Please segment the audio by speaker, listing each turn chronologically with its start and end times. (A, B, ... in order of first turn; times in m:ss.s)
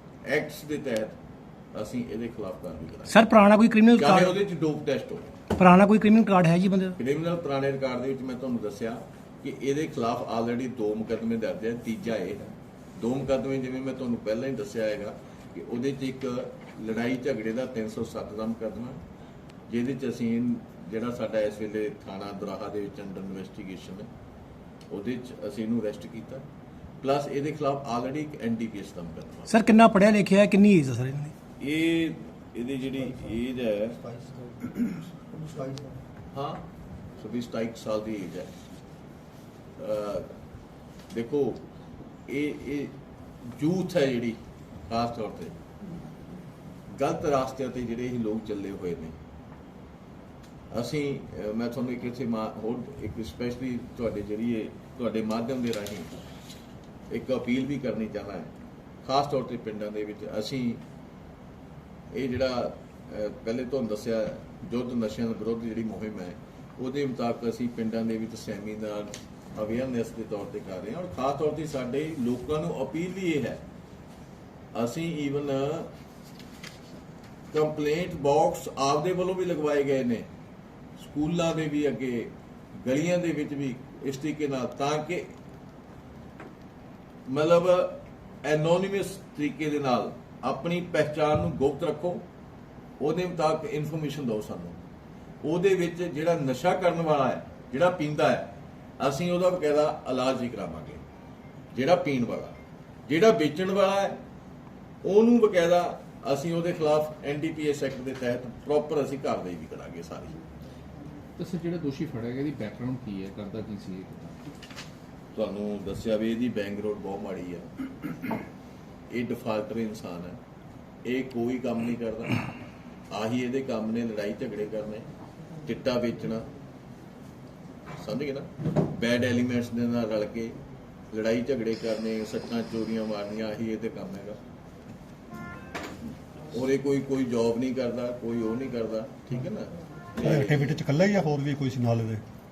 0:00.2-0:01.2 A
0:01.7-0:03.2 A
0:03.1-0:04.3 B
0:03.9-0:05.3 A
0:05.6-0:07.0 B
0:07.0-0:19.0 A
0:19.7-0:24.1 A
0:24.9-0:26.4 A
0:27.0-0:29.6 A
0:29.5-0:31.3 B
0:31.6-0:34.0 A
0:34.0-0:36.0 C
0:36.3-0:36.6 A
0:37.2-0:38.5 A
0:39.8-0:40.3 A
0:41.1-0:41.6 A
0:42.3-0:42.9 A
0:43.5-0:45.5 A
0:46.9-0:49.2 A
0:50.7-0:56.1 A
0:57.1-0:58.5 A
0:59.0-1:00.8 A
1:02.1-1:13.6 A
1:14.7-1:15.9 A
1:17.5-1:20.3 A
1:21.0-1:22.3 A
1:22.8-1:25.3 A
1:27.3-1:32.2 A
1:33.0-1:34.8 A
1:35.4-1:41.0 A
1:41.7-1:42.5 A
1:43.0-1:44.2 A
1:45.0-1:50.4 A
1:51.4-1:54.4 D
1:55.3-1:57.7 A
1:59.1-2:00.4 A
2:01.0-2:02.4 A
2:03.1-2:05.1 A
2:05.6-2:06.5 A
2:08.0-2:10.6 A
2:11.1-2:14.4 A
2:16.5-2:20.8 A
2:20.2-2:22.2 E